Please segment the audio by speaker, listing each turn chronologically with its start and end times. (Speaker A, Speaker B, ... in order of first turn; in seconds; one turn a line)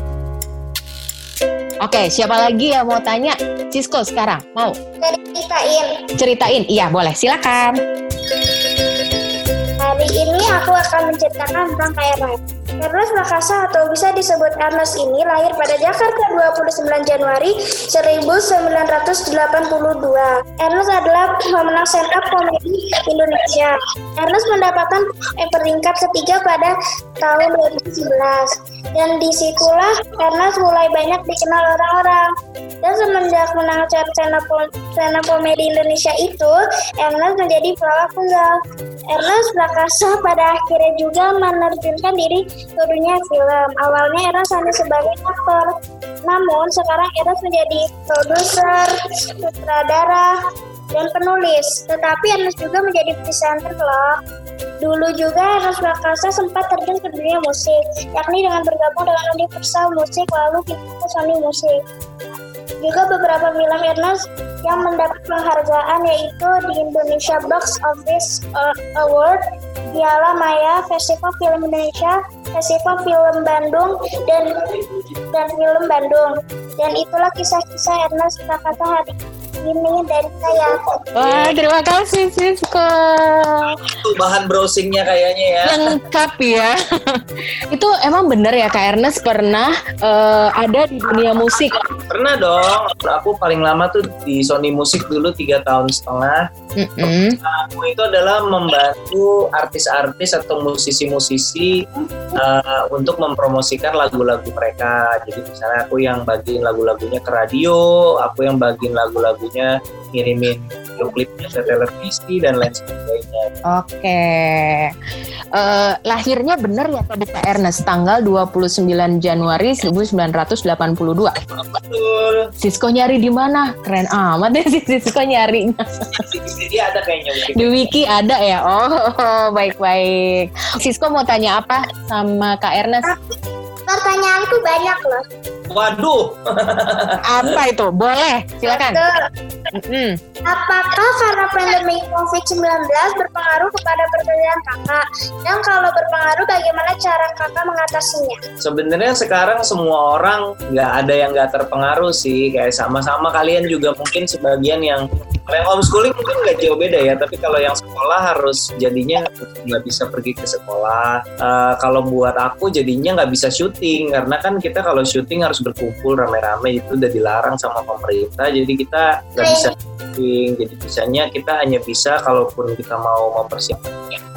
Speaker A: 1.8-4.8
Speaker B: 5.0-5.9
Speaker A: 6.2-7.8
Speaker B: 9.8-32.3
Speaker B: 32.8-38.5
Speaker B: 39.1-45.7
Speaker B: 46.3-48.9
Speaker B: 49.5-50.3
Speaker B: 50.9-54.1
Speaker B: 54.8-61.8
Speaker B: 62.8-69.4
Speaker B: 69.9-74.7
Speaker B: 75.3-80.8
Speaker A: 81.2-83.7
Speaker C: 81.2-81.6
Speaker C: 84.0-85.8
Speaker A: 85.7-91.8
Speaker C: 92.1-96.4
Speaker A: 96.8-97.4
Speaker C: 97.0-101.8
Speaker C: 102.4-113.5
Speaker A: 113.7-114.9
Speaker A: 115.5-121.3
Speaker C: 121.5-122.5
Speaker A: 122.6-126.2
Speaker C: 126.2-127.9
Speaker A: 127.5-133.1
Speaker B: 133.9-135.2
Speaker C: 135.7-137.2
Speaker A: 137.2-139.0
Speaker B: 138.7-139.1
Speaker A: 139.8-140.2
Speaker B: 140.5-148.4
Speaker C: 148.6-174.2
Speaker B: 169.4-169.7